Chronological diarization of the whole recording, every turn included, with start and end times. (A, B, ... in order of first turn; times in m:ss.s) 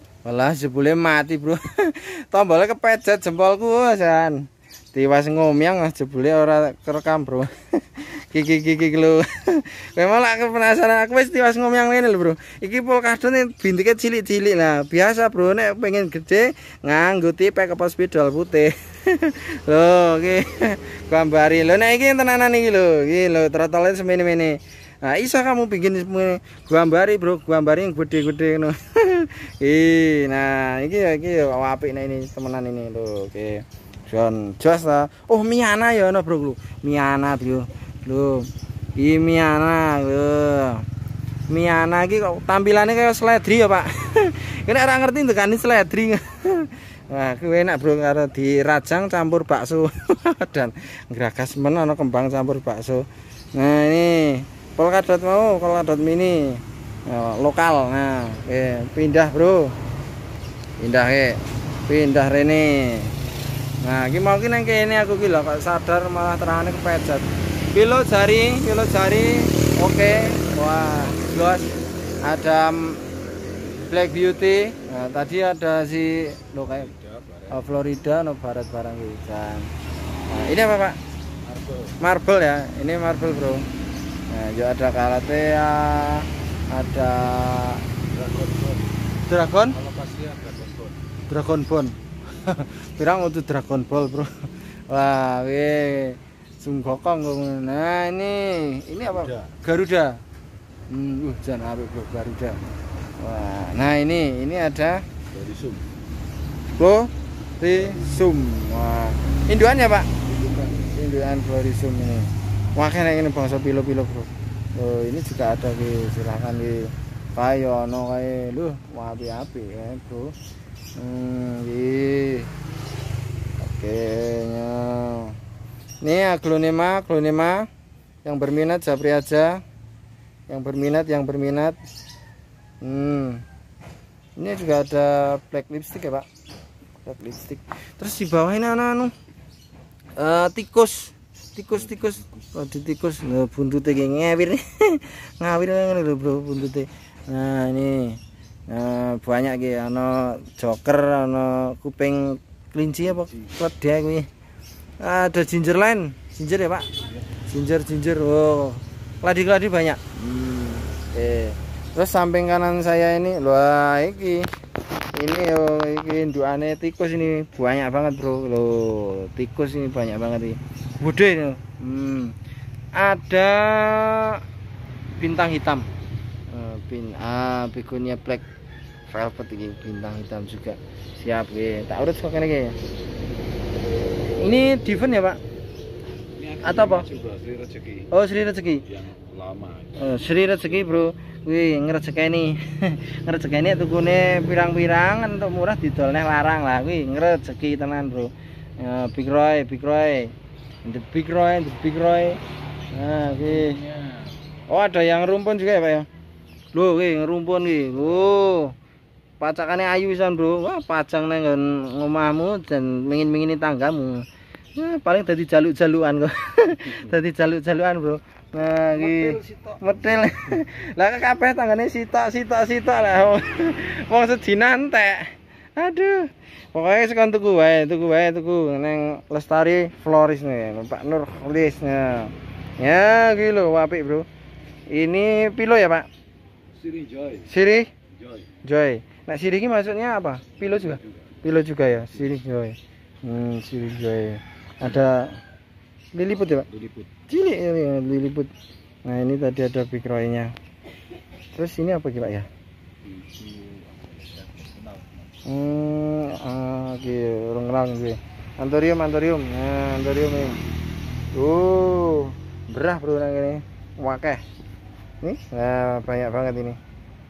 0:00.2-0:40.9 A
0:41.5-0:59.8 A
1:00.8-1:03.1 A
1:03.8-1:11.7 A
1:12.2-1:13.0 A
1:13.9-1:16.9 A
1:16.6-1:17.7 B
1:17.5-1:19.7 A
1:20.3-1:21.0 A
1:21.4-1:22.0 B
1:22.0-1:23.7 A
1:24.3-1:27.8 A
1:28.1-1:28.9 B
1:29.3-1:29.8 A
1:29.7-1:31.0 B
1:31.3-1:40.2 A
1:39.1-1:39.5 B
1:40.9-1:42.6 A
1:43.2-1:45.0 A
1:45.3-1:45.9 B
1:46.8-2:00.3 A
1:50.3-1:50.7 B
2:01.0-2:02.5 A
2:03.6-2:05.4 A
2:06.0-2:07.7 A
2:08.2-2:09.6 A
2:10.5-2:11.8 A
2:12.8-2:13.4 A
2:14.4-2:16.3 A
2:17.0-2:19.1 A
2:20.2-2:34.3 A
2:21.8-2:22.4 B
2:33.0-2:33.6 B
2:35.0-2:36.9 A
2:37.5-2:44.5 A
2:45.1-2:52.4 A
2:53.0-2:54.4 A
2:55.2-2:55.9 A
2:56.5-2:58.4 A
2:59.1-3:02.8 A
3:04.4-3:05.4 A
3:06.4-3:08.1 B
3:06.6-3:07.1 A
3:08.1-3:08.8 A
3:08.9-3:10.9 B
3:10.0-3:20.3 A
3:20.8-3:22.4 A
3:22.9-3:23.8 A
3:23.4-3:24.5 B
3:24.7-3:26.1 A
3:26.7-3:28.8 A
3:29.4-3:34.2 A
3:34.8-3:54.3 A
3:38.9-3:40.6 B
3:54.9-3:56.1 A
3:56.7-3:57.6 B
3:57.5-3:57.9 A
3:58.6-4:05.4 A
4:00.7-4:01.3 B
4:06.1-4:06.7 A
4:06.5-4:07.1 B
4:07.3-4:08.5 A
4:09.0-4:10.5 A
4:11.6-4:12.5 A
4:13.0-4:15.4 B
4:15.4-4:20.6 A
4:21.3-4:24.4 A
4:25.2-4:26.8 A